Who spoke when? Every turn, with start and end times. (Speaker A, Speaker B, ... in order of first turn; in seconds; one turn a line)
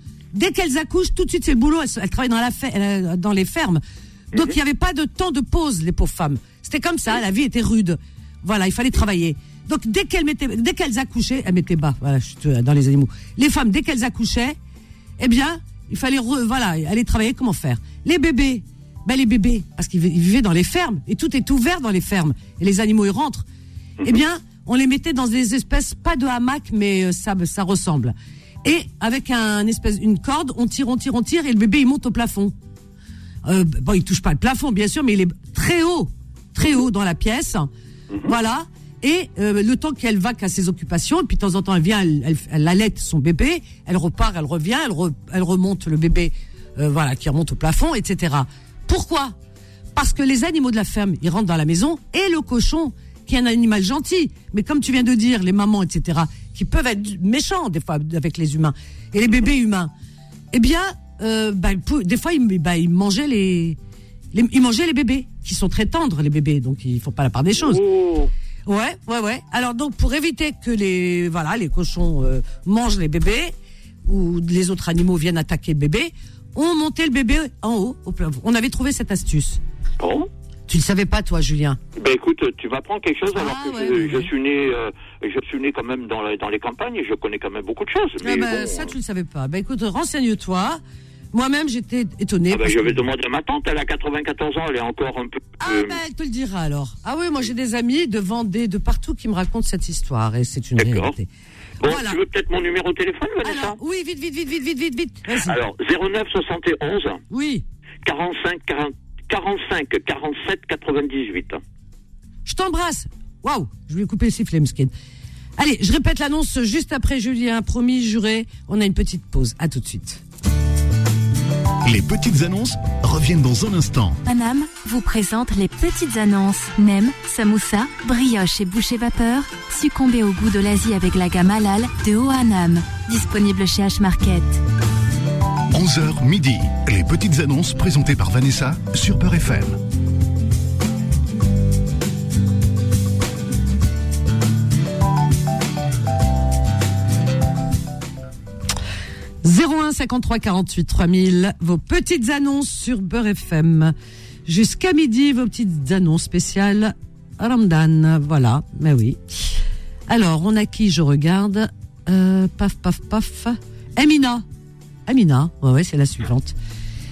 Speaker A: 0.3-14.6
Speaker A: 15.2-23.4
Speaker A: 24.0-32.5
Speaker A: 33.4-37.7
Speaker A: 38.2-49.3
Speaker A: 49.9-59.9
Speaker A: 60.5-63.8
Speaker A: 64.3-67.8
Speaker B: 67.6-68.3
Speaker A: 68.7-73.5
Speaker A: 74.0-79.6
Speaker B: 80.0-80.3
Speaker A: 80.7-81.8
Speaker B: 82.0-88.9
Speaker A: 83.3-84.3
Speaker A: 88.2-90.8
Speaker A: 91.3-93.0
Speaker B: 92.5-96.0
Speaker A: 95.6-101.3
Speaker B: 100.8-101.1
Speaker B: 101.8-103.8
Speaker A: 101.8-102.2
Speaker A: 103.4-105.6
Speaker B: 105.4-107.2
Speaker A: 107.3-107.6
Speaker B: 108.0-111.6
Speaker A: 112.4-114.9
Speaker A: 115.6-120.2
Speaker C: 121.8-124.2
Speaker D: 124.2-134.6
Speaker C: 135.7-139.8
Speaker A: 149.4-153.9
Speaker A: 154.4-164.4
Speaker A: 165.1-166.5